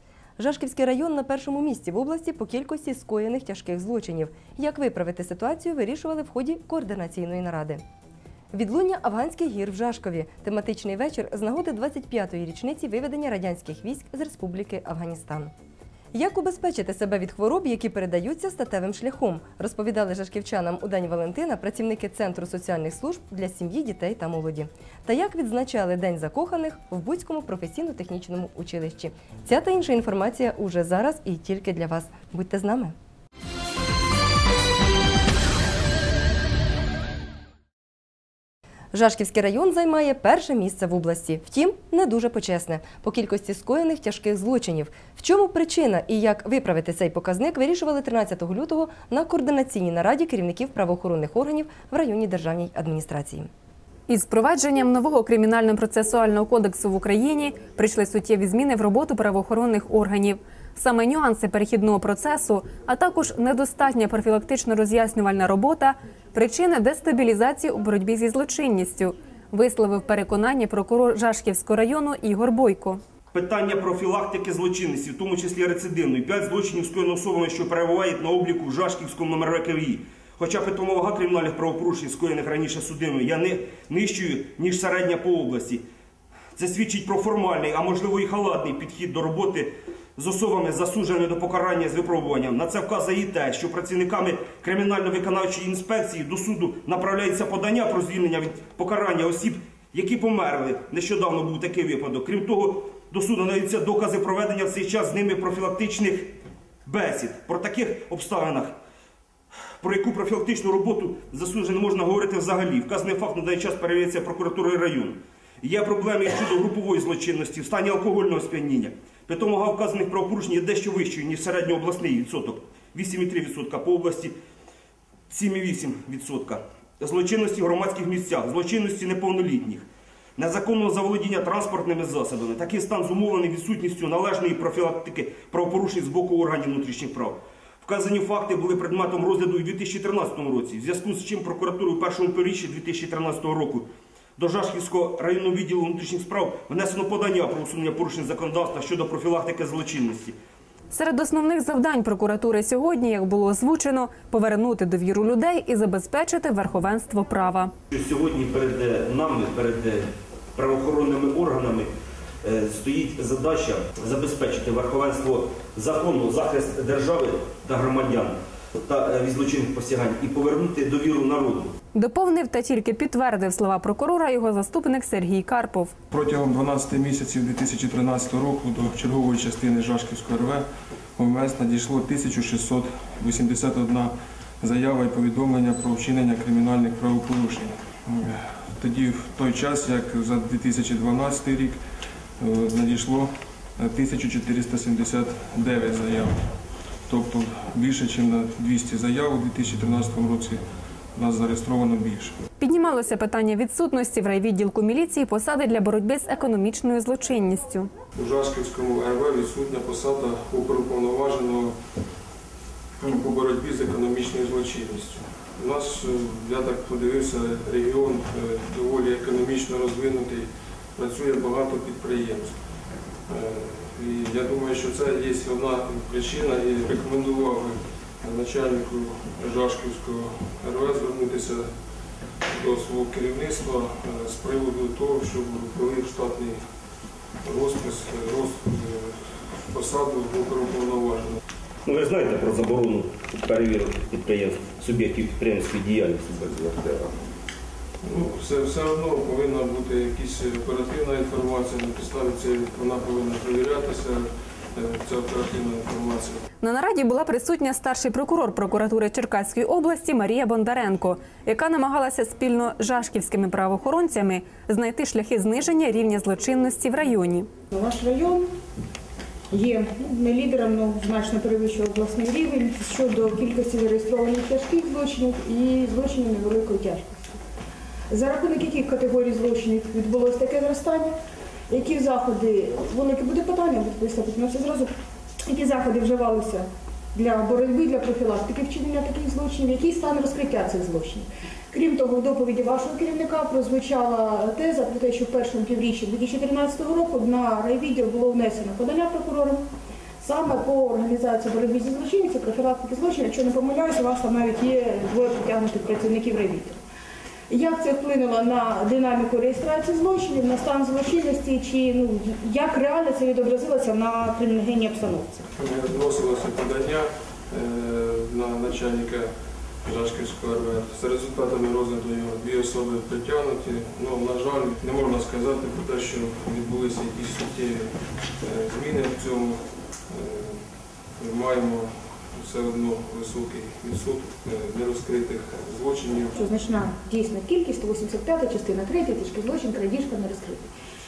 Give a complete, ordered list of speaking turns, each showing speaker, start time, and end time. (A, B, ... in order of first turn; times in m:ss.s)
0:00.4-0:07.8 A
0:08.5-0:15.5 A
0:16.1-0:32.9 A
0:38.9-0:53.5 A
0:54.1-1:13.0 B
1:13.3-1:25.8 C
1:26.6-1:46.3 C
1:46.8-1:48.8 C
1:49.8-2:04.3 C
2:05.3-2:09.8 C
2:10.4-2:30.4 C
2:30.9-2:37.7 B
2:37.9-2:41.9 C
2:42.4-2:51.7 C
2:51.9-2:55.9 B
2:56.1-3:11.8 D
3:12.4-3:16.3 D
3:17.1-3:20.6 D
3:21.1-3:22.4 D
3:22.6-3:27.9 B
3:28.2-3:31.7 D
3:33.0-3:42.6 D
3:43.3-3:51.7 D
3:52.5-3:56.6 D
3:57.4-3:59.2 D
3:59.7-4:01.4 D
4:01.8-4:07.2 C
4:08.0-4:16.4 D
4:16.6-4:27.5 B
4:27.7-4:28.5 E
4:29.5-4:37.1 E
4:38.1-4:41.1 E
4:41.7-4:44.9 E
4:45.4-4:59.6 E
5:00.2-5:06.8 E
5:07.5-5:15.4 E
5:15.6-5:19.3 D
5:19.8-5:30.6 D
5:31.2-5:36.4 D
5:36.4-5:40.7 E